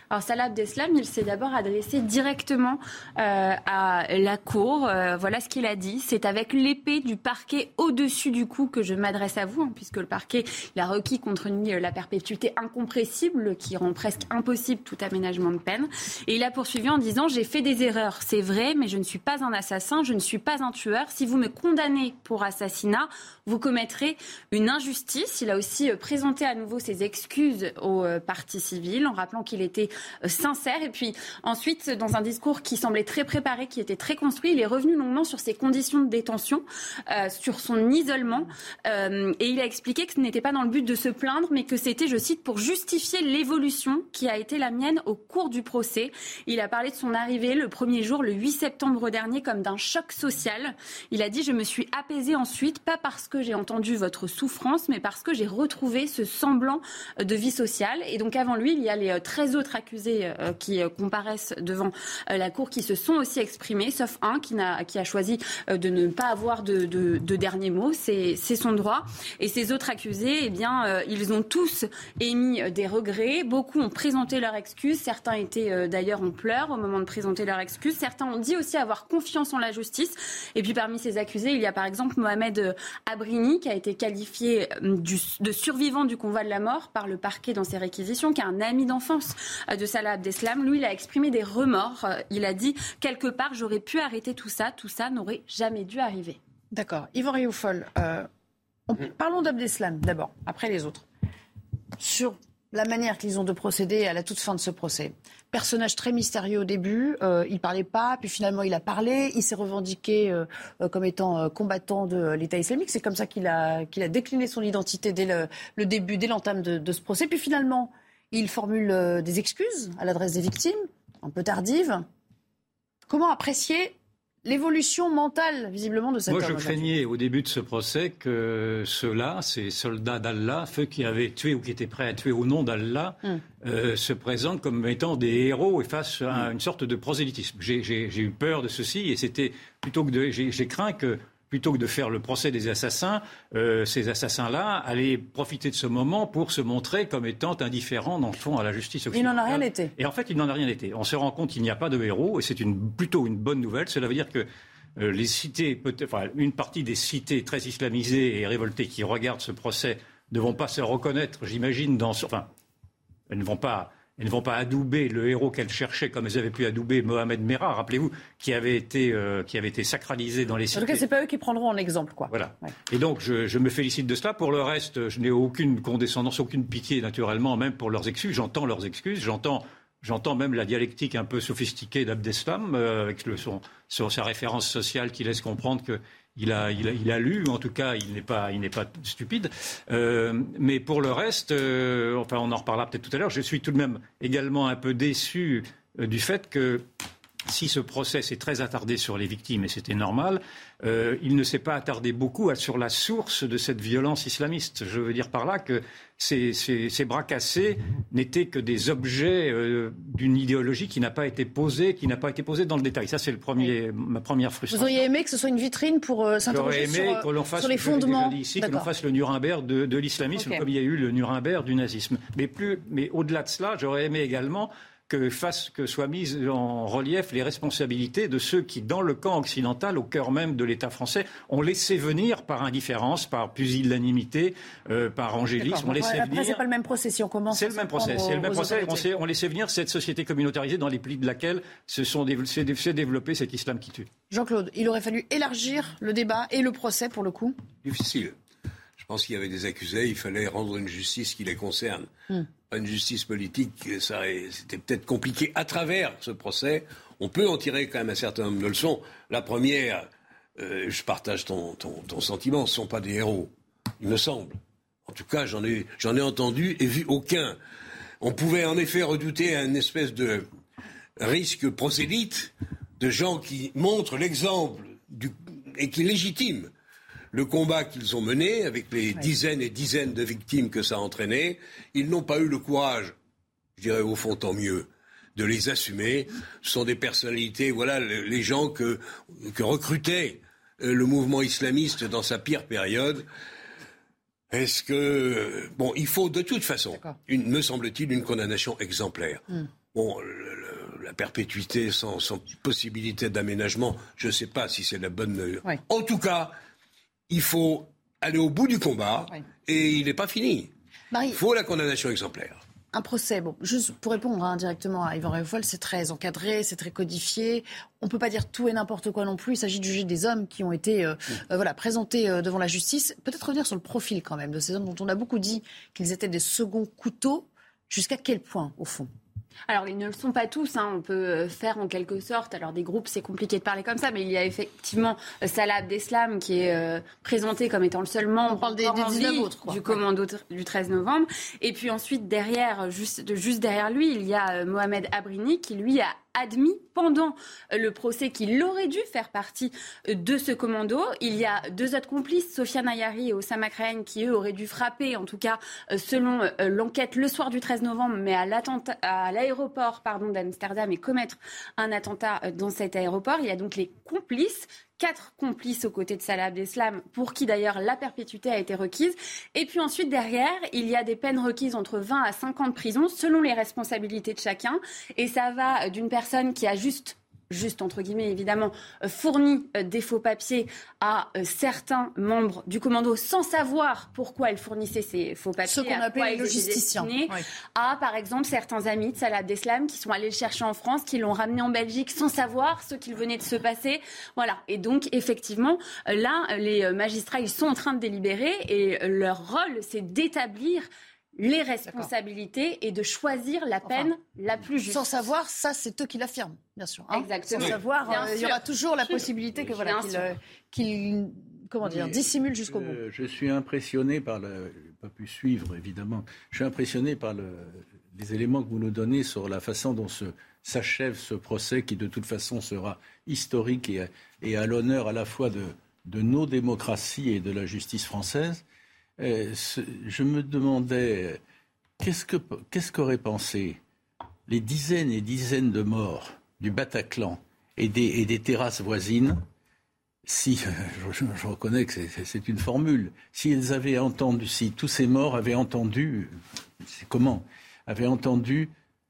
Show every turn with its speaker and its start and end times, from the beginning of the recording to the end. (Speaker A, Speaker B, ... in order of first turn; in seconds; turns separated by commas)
Speaker A: 0.1-96.4, Speaker B: 96.7-98.3, Speaker B: 98.9-101.0, Speaker B: 102.0-122.0, Speaker B: 123.1-126.9, Speaker C: 126.3-162.5, Speaker B: 149.1-149.9, Speaker C: 163.3-171.0, Speaker B: 170.7-172.7, Speaker C: 172.3-196.8, Speaker C: 197.5-215.1, Speaker B: 214.7-218.9, Speaker C: 216.5-236.6, Speaker B: 220.3-220.6, Speaker B: 235.6-239.1, Speaker C: 237.5-244.1, Speaker B: 244.3-247.6, Speaker D: 247.8-248.3, Speaker D: 249.0-252.1, Speaker D: 252.7-260.1, Speaker D: 260.6-267.6, Speaker D: 268.2-270.5, Speaker D: 271.2-276.7, Speaker D: 277.3-283.1, Speaker D: 283.8-293.2, Speaker D: 294.5-306.6, Speaker D: 307.3-310.7, Speaker B: 311.1-311.4, Speaker D: 311.3-312.6, Speaker B: 312.9-329.1, Speaker A: 329.7-405.1, Speaker B: 338.5-340.0, Speaker B: 385.6-387.4, Speaker B: 404.9-413.0, Speaker A: 407.1-410.3, Speaker E: 411.8-428.6, Speaker E: 429.2-431.4, Speaker E: 432.0-433.8, Speaker E: 434.5-439.4, Speaker E: 440.3-448.7